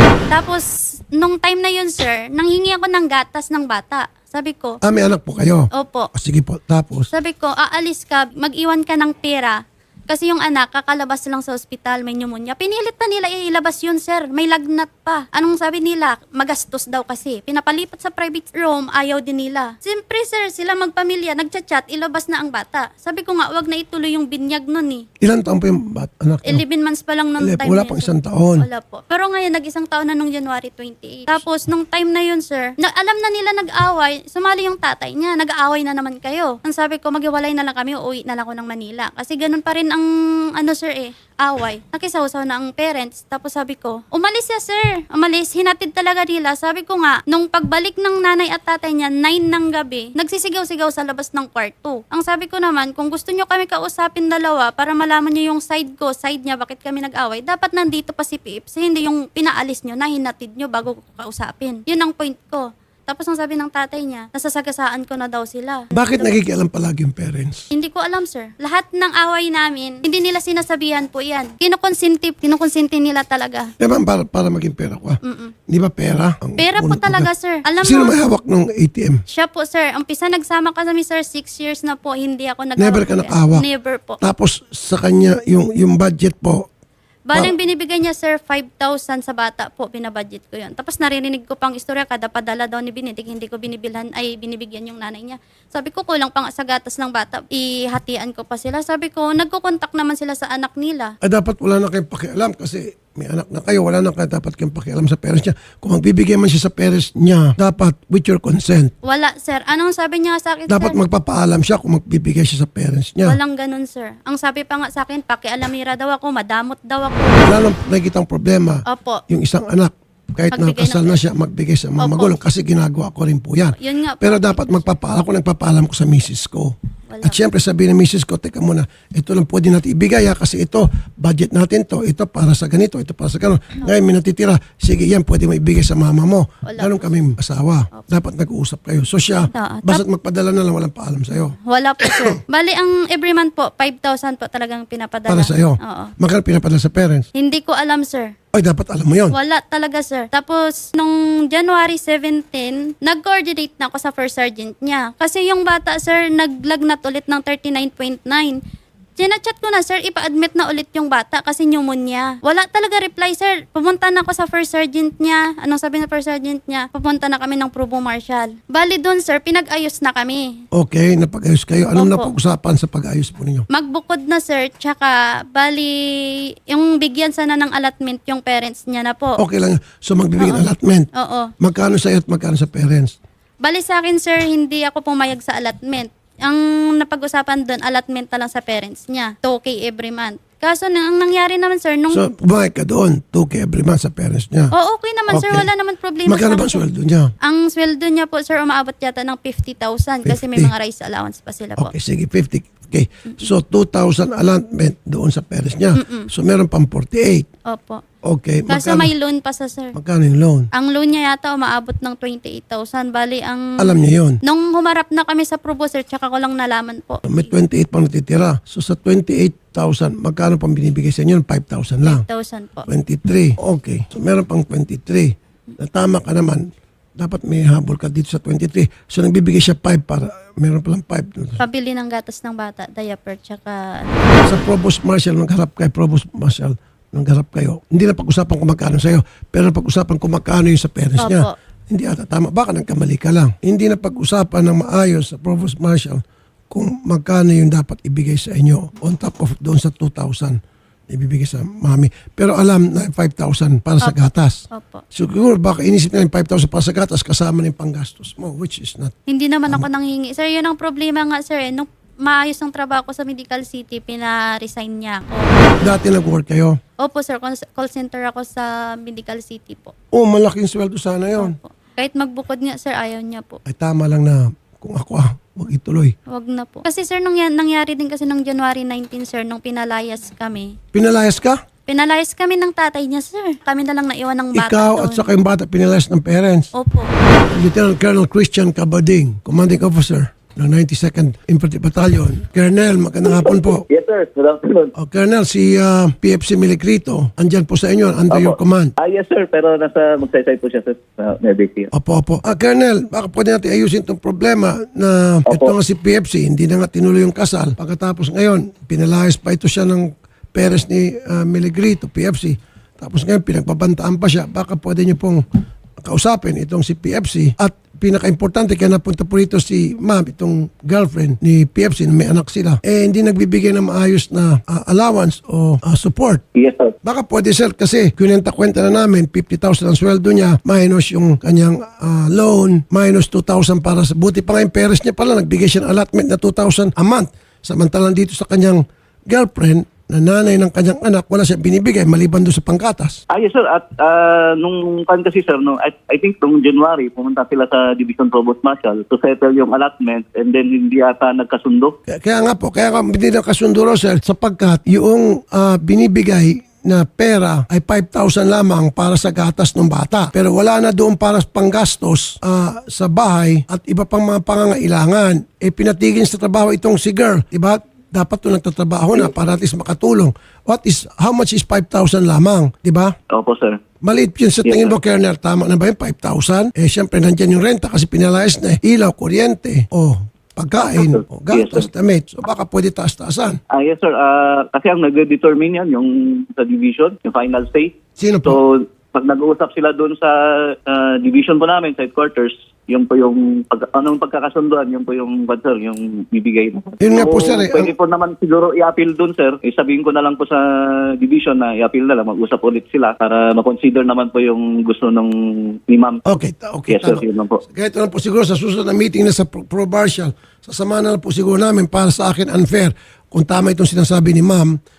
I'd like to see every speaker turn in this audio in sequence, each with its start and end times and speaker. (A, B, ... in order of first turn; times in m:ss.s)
0:00.3-0:04.8 A
0:04.8-0:07.1 B
0:05.7-0:06.1 A
0:07.1-0:25.0 A
0:25.2-0:26.6 B
0:26.5-1:06.4 A
0:27.4-0:28.7 B
1:05.9-1:07.7 B
1:07.7-1:13.7 A
1:13.8-1:17.3 B
1:15.2-1:15.5 A
1:16.6-1:18.1 A
1:17.8-1:19.2 B
1:19.3-1:24.2 A
1:22.8-1:23.6 B
1:24.2-1:26.6 B
1:27.3-1:41.1 A
1:41.2-1:48.9 B
1:49.0-1:51.0 A
1:50.7-1:53.4 B
1:53.2-1:57.5 A
1:57.4-2:22.3 B
1:58.9-1:59.2 A
2:00.5-2:01.2 A
2:02.0-2:02.3 A
2:03.8-2:04.9 A
2:07.1-2:07.4 A
2:16.7-2:17.0 A
2:19.5-2:20.0 A
2:21.6-2:26.1 A
2:25.3-2:27.3 B
2:27.3-2:28.3 A
2:28.5-2:29.3 B
2:29.3-2:38.6 A
2:39.2-2:50.5 A
2:50.7-2:53.6 B
2:51.9-2:52.3 A
2:53.7-2:56.0 A
2:56.7-2:59.3 A
2:59.4-3:01.1 B
3:00.4-3:00.6 A
3:01.2-3:01.5 A
3:01.6-3:03.1 B
3:03.6-3:12.2 A
3:12.1-3:14.7 B
3:14.7-3:16.8 A
3:15.3-3:15.7 B
3:16.2-3:17.3 B
3:17.4-3:21.9 A
3:20.2-3:20.7 B
3:21.8-3:27.5 B
3:26.0-3:26.3 A
3:27.6-3:28.0 A
3:28.3-3:29.1 B
3:28.7-3:29.9 A
3:29.9-3:30.7 B
3:30.7-3:33.9 A
3:33.8-3:34.4 B
3:34.4-3:37.2 A
3:37.3-3:42.2 B
3:42.0-3:42.8 A
3:42.9-3:46.6 B
3:47.2-3:51.6 B
3:51.6-3:54.3 A
3:54.4-4:10.6 B
4:01.2-4:01.5 A
4:11.1-4:14.6 B
4:14.0-4:15.0 A
4:15.1-4:19.1 B
4:19.3-4:25.9 A
4:25.8-4:26.8 B
4:27.0-4:29.9 A
4:30.1-4:31.5 B
4:31.4-4:33.6 A
4:33.7-4:36.1 B
4:36.3-4:40.8 A
4:40.9-4:41.6 B
4:41.9-4:45.3 A
4:44.5-4:46.7 B
4:46.7-4:47.1 A
4:47.5-4:53.8 B
4:53.3-4:54.9 C
4:55.0-4:58.9 B
4:58.3-5:01.9 C
5:01.9-5:15.4 B
5:16.0-5:26.4 B
5:26.5-5:26.9 C
5:27.0-5:43.2 B
5:43.3-5:52.0 C
5:52.1-6:13.1 B
6:13.3-6:13.8 C
6:14.0-6:23.6 B
6:14.6-6:14.9 C
6:20.8-6:21.8 C
6:23.7-6:27.9 C
6:28.2-6:28.6 B
6:28.4-6:46.2 C
6:37.0-6:37.9 B
6:46.3-6:54.8 B
6:46.9-6:47.6 C